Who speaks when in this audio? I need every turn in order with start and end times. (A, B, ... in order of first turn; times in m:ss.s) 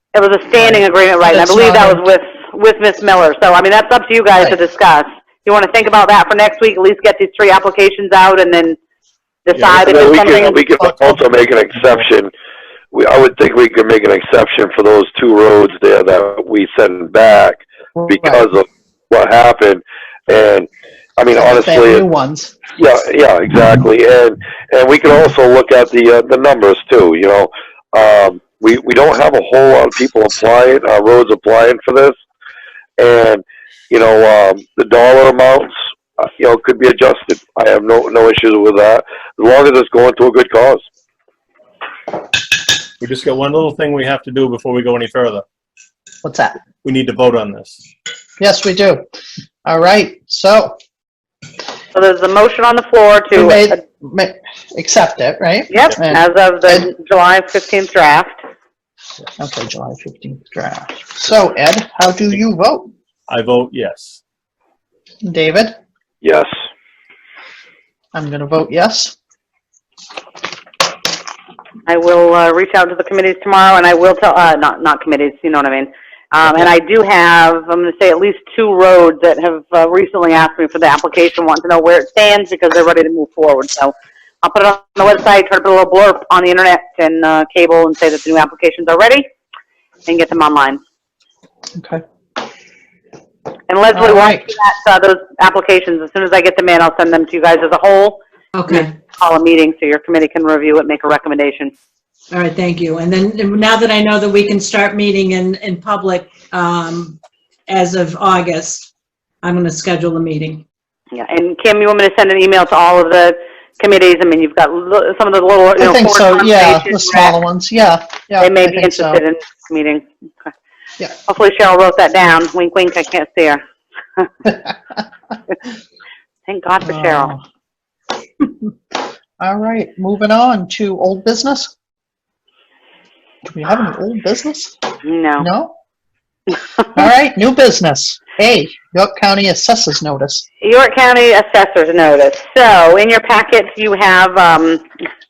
0:00.1-0:08.8 A
0:00.6-0:02.0 B
0:09.5-0:10.6 A
0:09.5-0:11.2 C
0:09.7-0:12.3 D
0:12.9-0:22.0 D
0:18.0-0:18.4 B
0:21.3-0:22.6 B
0:22.8-0:32.2 D
0:33.0-0:40.8 D
0:43.0-0:45.4 C
0:46.2-0:46.6 B
0:46.8-0:47.8 C
0:48.4-0:49.0 B
0:49.6-0:50.8 B
0:51.9-0:53.8 A
0:53.3-0:56.9 B
0:55.7-0:58.4 A
0:59.4-1:02.9 B
1:03.3-1:04.2 C
1:05.2-1:05.8 B
1:06.2-1:06.5 D
1:08.1-1:09.2 B
1:11.9-1:29.3 A
1:30.1-1:30.8 A
1:33.7-1:41.7 A
1:33.9-1:34.5 B
1:38.6-1:38.9 E
1:42.3-1:48.9 E
1:49.4-1:50.6 E
1:51.1-1:57.3 A
1:55.8-1:59.2 B
1:58.4-2:00.5 A
2:01.3-2:03.6 A
2:06.5-2:07.3 A
2:06.8-2:07.4 B
2:09.4-2:11.7 B
2:13.4-2:14.8 B
2:15.0-2:15.5 A
2:15.4-2:15.7 B
2:16.9-2:20.5 B
2:20.6-2:24.8 A